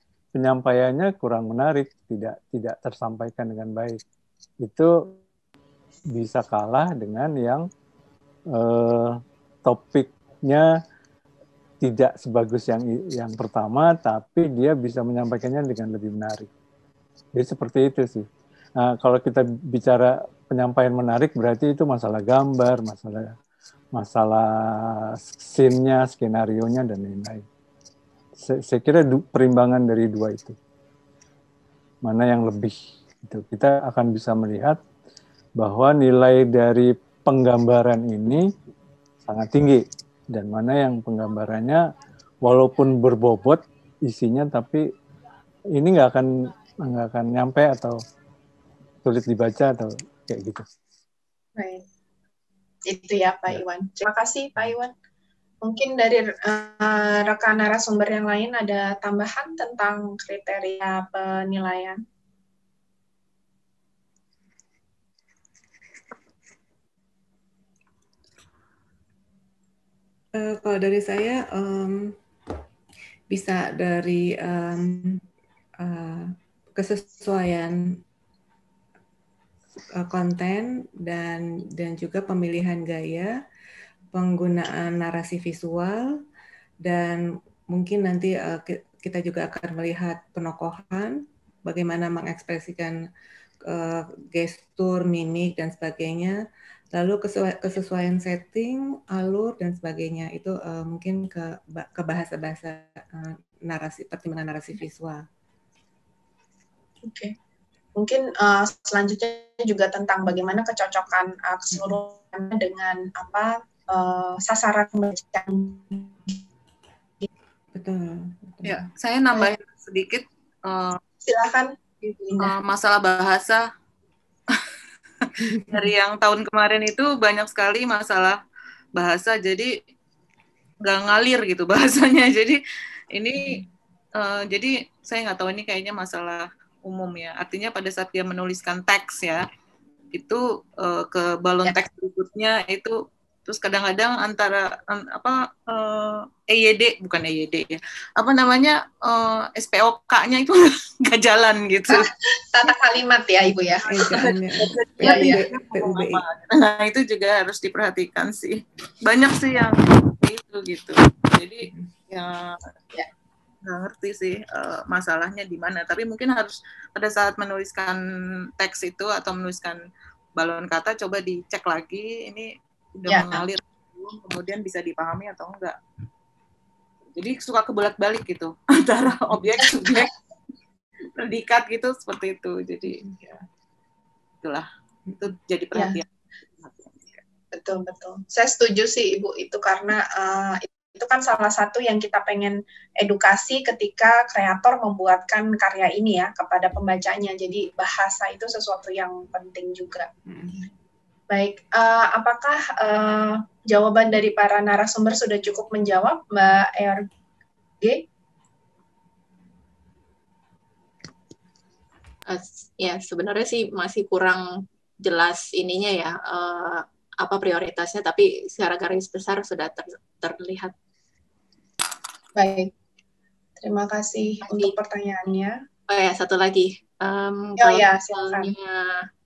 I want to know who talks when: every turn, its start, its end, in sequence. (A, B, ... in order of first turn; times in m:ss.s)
0:00.4-0:04.0 A
0:04.6-0:05.1 A
0:06.2-0:07.6 A
0:08.6-0:10.7 A
0:11.8-0:16.5 A
0:17.4-0:18.3 A
0:18.8-0:23.4 A
0:24.0-0:27.4 A
0:28.4-0:30.6 A
0:32.0-0:34.8 A
0:35.6-0:38.5 A
0:39.2-0:41.8 A
0:42.4-0:44.9 A
0:45.8-0:48.0 A
0:49.0-0:50.7 A
0:51.6-0:51.8 B
0:52.9-0:54.9 B
0:55.6-1:02.0 B
1:10.4-1:12.1 C
1:13.3-1:15.2 C
1:15.8-1:18.0 C
1:20.0-1:23.4 C
1:24.1-1:26.1 C
1:26.8-1:33.0 C
1:33.7-1:36.4 C
1:36.9-1:45.2 C
1:47.1-1:47.3 B
1:48.0-1:56.4 B
1:57.7-1:58.8 C
1:58.6-2:01.0 D
2:01.2-2:02.5 B
2:02.4-2:03.6 D
2:05.2-2:08.4 D
2:05.4-2:05.9 C
2:09.0-2:09.7 D
2:10.8-2:12.6 D
2:13.1-2:13.6 D
2:13.4-2:13.7 C
2:14.2-2:19.4 D
2:20.2-2:32.1 D
2:31.9-2:34.3 B
2:33.9-2:36.2 C
2:34.2-2:42.7 D
2:35.0-2:35.4 B
2:41.7-2:41.9 C
2:43.7-2:48.0 D
2:48.6-2:49.8 D
2:50.4-2:55.8 D
2:53.1-2:53.4 B
2:57.2-3:00.2 D
3:01.2-3:03.0 D
3:05.2-3:06.1 D
3:06.6-3:07.2 D
3:07.5-3:20.1 B
3:21.3-3:27.0 B
3:32.3-3:34.4 E
3:35.0-3:40.7 E
3:42.4-3:42.7 B
3:43.6-3:45.6 B
3:44.4-3:44.7 E
3:45.9-3:49.0 E
3:47.6-3:48.5 B